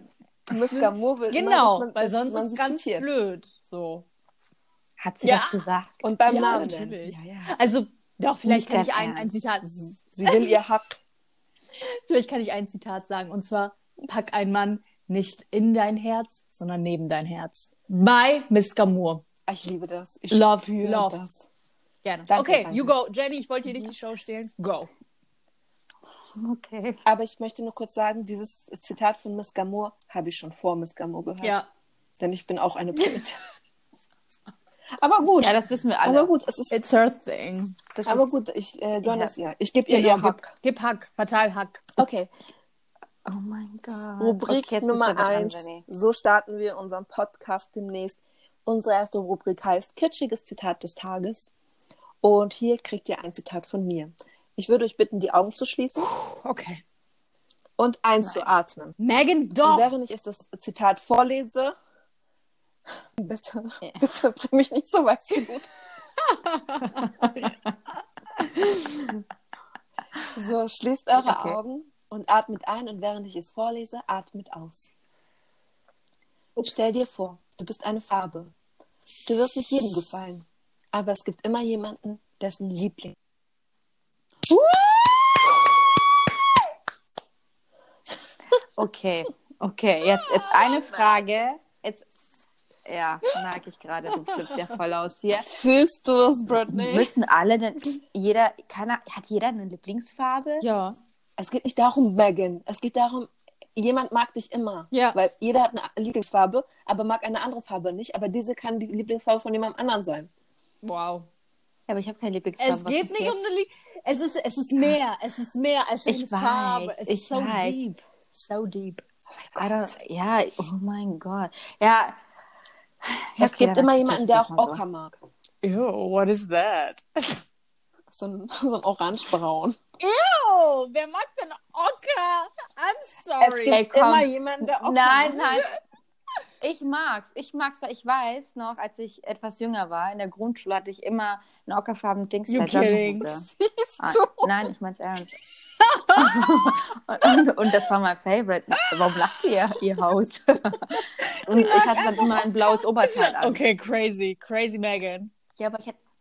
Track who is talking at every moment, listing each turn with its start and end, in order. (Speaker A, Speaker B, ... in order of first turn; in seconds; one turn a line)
Speaker A: 0.5-3.1
Speaker B: 0.7-4.1
Speaker C: 5.0-6.0
Speaker B: 5.2-5.6
Speaker A: 6.0-7.5
Speaker B: 6.3-9.7
Speaker C: 8.4-9.3
Speaker A: 9.7-11.0
Speaker B: 10.2-10.5
Speaker B: 11.9-19.2
Speaker A: 19.5-21.5
Speaker B: 20.3-21.2
Speaker B: 22.1-24.9
Speaker A: 22.3-22.9
Speaker C: 26.4-27.0
Speaker A: 27.1-31.6
Speaker B: 31.4-31.7
Speaker A: 32.2-33.4
Speaker A: 35.0-36.8
Speaker C: 35.4-36.3
Speaker B: 36.7-37.8
Speaker C: 37.9-38.3
Speaker A: 38.1-40.5
Speaker C: 39.0-39.3
Speaker B: 39.9-42.0
Speaker A: 42.0-42.3
Speaker C: 43.3-45.9
Speaker A: 44.2-51.5
Speaker A: 52.2-56.1
Speaker B: 56.0-56.8
Speaker A: 57.8-59.0
Speaker B: 59.0-59.9
Speaker A: 59.6-61.8
Speaker A: 63.2-65.7
Speaker B: 66.3-67.1
Speaker A: 70.3-74.9
Speaker C: 71.2-71.6
Speaker A: 76.6-78.5
Speaker A: 79.3-83.2
Speaker B: 84.5-85.5
Speaker C: 88.8-92.1
Speaker B: 90.4-90.8
Speaker C: 92.9-95.5
Speaker A: 95.5-97.1
Speaker C: 96.7-100.6
Speaker B: 100.6-101.0
Speaker A: 101.4-110.3
Speaker B: 104.9-105.2
Speaker B: 110.8-111.3
Speaker C: 111.9-113.4
Speaker B: 112.6-119.0
Speaker C: 116.1-117.8
Speaker C: 119.6-122.2
Speaker C: 123.0-124.8
Speaker A: 123.4-125.1
Speaker B: 125.6-127.4
Speaker A: 128.1-129.8
Speaker B: 130.0-133.8
Speaker A: 133.4-135.7
Speaker C: 133.7-135.7
Speaker C: 136.6-143.5
Speaker B: 142.5-143.3
Speaker A: 143.5-144.5
Speaker C: 144.0-145.4
Speaker B: 145.8-146.7
Speaker C: 146.1-153.6
Speaker B: 148.8-149.1
Speaker B: 151.2-152.5
Speaker B: 153.3-155.3
Speaker C: 155.6-156.0